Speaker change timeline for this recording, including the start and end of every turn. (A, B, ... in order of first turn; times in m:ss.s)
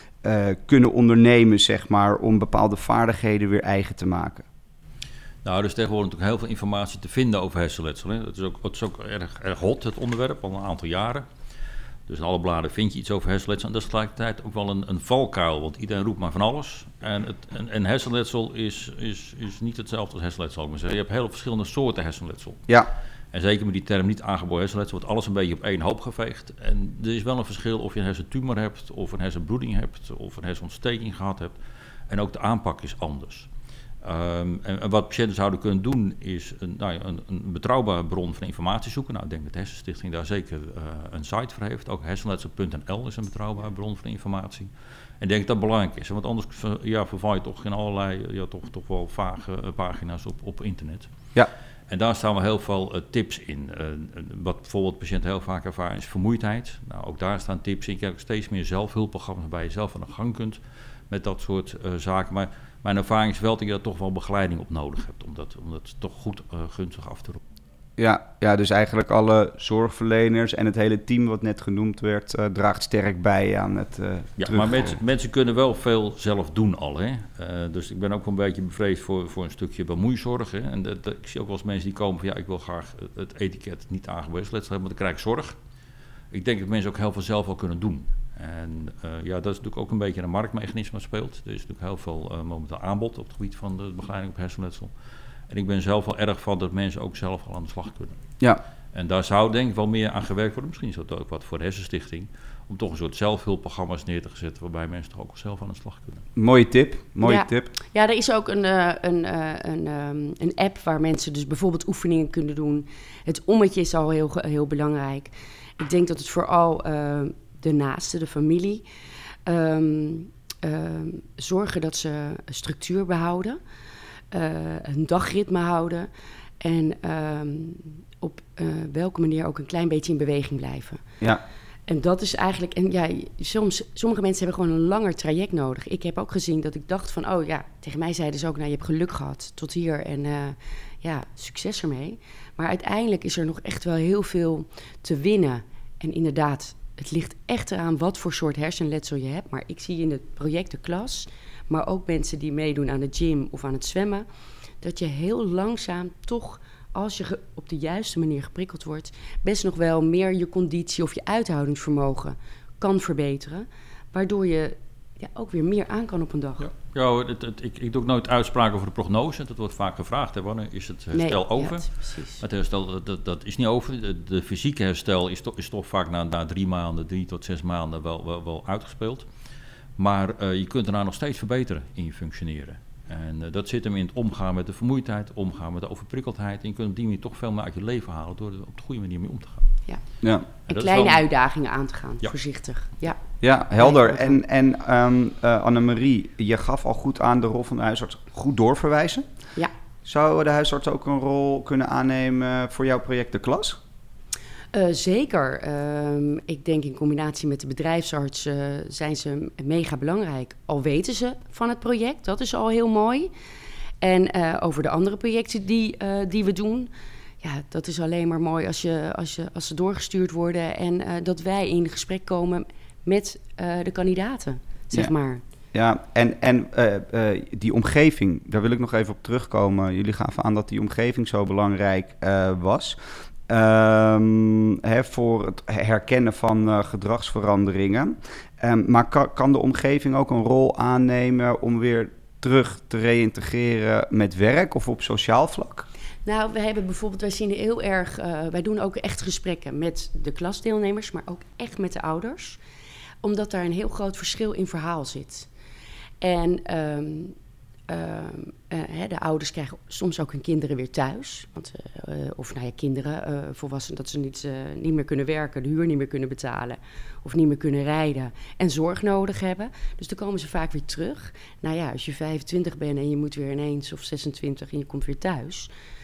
0:00.2-0:04.4 A
0:05.4-0:11.2 B
0:12.1-0:22.6 B
0:23.3-0:31.5 B
0:32.1-0:33.5 B
0:34.0-0:44.7 B
0:45.2-0:51.1 B
0:51.9-1:07.4 B
1:08.0-1:15.0 A
1:14.4-1:25.6 B
1:26.3-1:34.9 B
1:35.5-1:38.2 B
1:38.9-1:46.2 B
1:46.4-1:47.7 A
1:47.2-1:58.8 C
1:59.4-2:03.6 C
2:04.3-2:06.1 C
2:06.6-2:11.0 C
2:11.9-2:34.2 C
2:34.8-2:46.7 C
2:46.6-2:59.2 B
2:51.1-2:52.4 C
3:00.0-3:09.7 B
3:10.7-3:11.2 B
3:10.7-3:13.2 C
3:13.4-3:19.2 A
3:13.8-3:14.4 C
3:20.0-3:23.8 A
3:24.7-3:33.3 C
3:34.0-3:36.9 C
3:37.4-3:45.4 C
3:45.7-4:05.9 A
4:06.2-4:12.6 C
4:13.2-4:15.5 C
4:16.2-4:17.4 C
4:17.9-4:35.7 C